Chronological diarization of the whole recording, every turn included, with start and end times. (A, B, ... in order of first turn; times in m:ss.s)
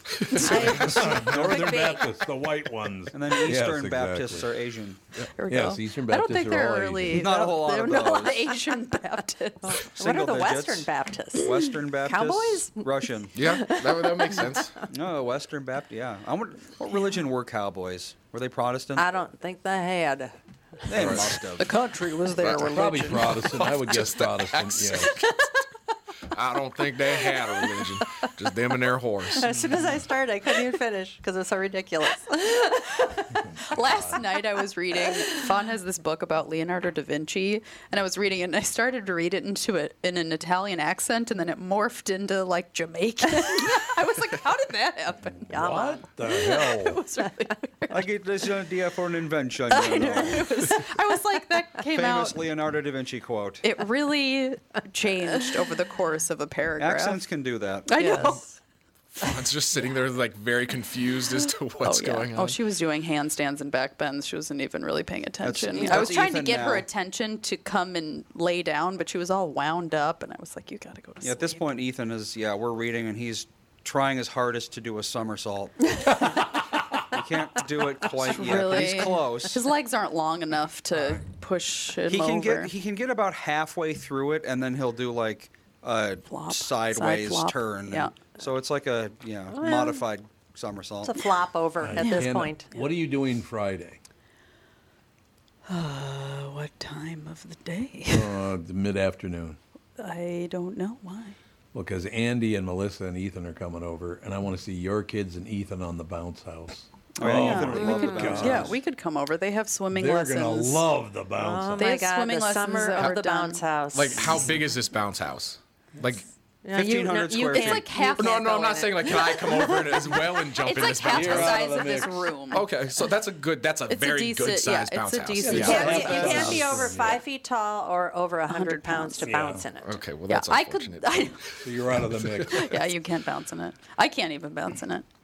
0:00.2-0:00.5 A
0:00.3-0:00.8 B
0:00.3-0:02.0 C
0:00.4-0:01.8 D
0:00.5-0:04.5 E
0:03.1-0:05.0 D
0:05.3-0:09.8 B
0:05.5-0:07.2 E
0:07.1-0:08.5 D
0:08.0-0:09.0 C
0:09.6-0:14.8 C
0:09.9-0:13.4 D
0:13.4-0:14.8 A
0:14.9-0:19.1 D
0:16.8-0:17.1 B
0:19.0-0:20.4 C
0:20.9-0:21.7 D
0:20.9-0:21.3 A
0:21.6-0:23.7 B
0:22.3-0:25.3 A
0:22.6-0:25.1 E
0:26.3-0:29.5 A
0:29.4-0:33.2 C
0:33.4-0:34.2 E
0:33.6-0:45.6 B
0:35.0-0:35.4 C
0:43.4-0:43.7 C
0:45.5-0:47.0 E
0:45.5-0:46.1 C
0:46.2-0:48.1 B
0:47.9-0:50.8 D
0:49.7-0:52.4 B
0:51.9-0:53.7 D
0:53.6-0:57.2 B
0:56.8-0:57.9 D
0:57.9-0:58.4 B
0:57.9-0:58.6 C
0:59.2-1:02.6 A
1:01.8-1:11.7 B
1:05.4-1:06.9 D
1:05.8-1:06.3 C
1:11.2-1:16.4 D
1:17.1-1:19.7 D
1:18.2-1:22.7 B
1:22.1-1:31.1 D
1:26.3-1:28.1 B
1:29.5-1:30.0 C
1:31.0-1:32.7 C
1:31.8-1:34.0 E
1:32.0-1:32.8 B
1:35.7-1:38.4 B
1:38.1-1:39.6 E
1:40.0-1:41.4 B
1:41.7-1:48.8 E
1:47.2-1:48.8 D
1:47.2-1:50.9 B
1:47.6-1:48.6 C
1:49.9-1:51.9 E
1:51.4-1:54.5 C
1:51.8-1:53.6 B
1:53.9-1:56.3 A
1:56.6-1:59.8 C
1:56.7-1:58.1 D
1:57.4-2:03.1 B
1:58.2-2:01.9 A
2:01.1-2:02.3 E
2:02.5-2:06.1 A
2:03.9-2:06.7 B
2:05.4-2:07.2 E
2:05.5-2:10.0 C
2:06.0-2:06.8 D
2:08.5-2:09.2 B
2:09.2-2:09.6 E
2:09.8-2:11.4 A
2:10.3-2:11.4 B
2:11.6-2:12.7 E
2:12.0-2:12.7 A
2:12.5-2:15.0 B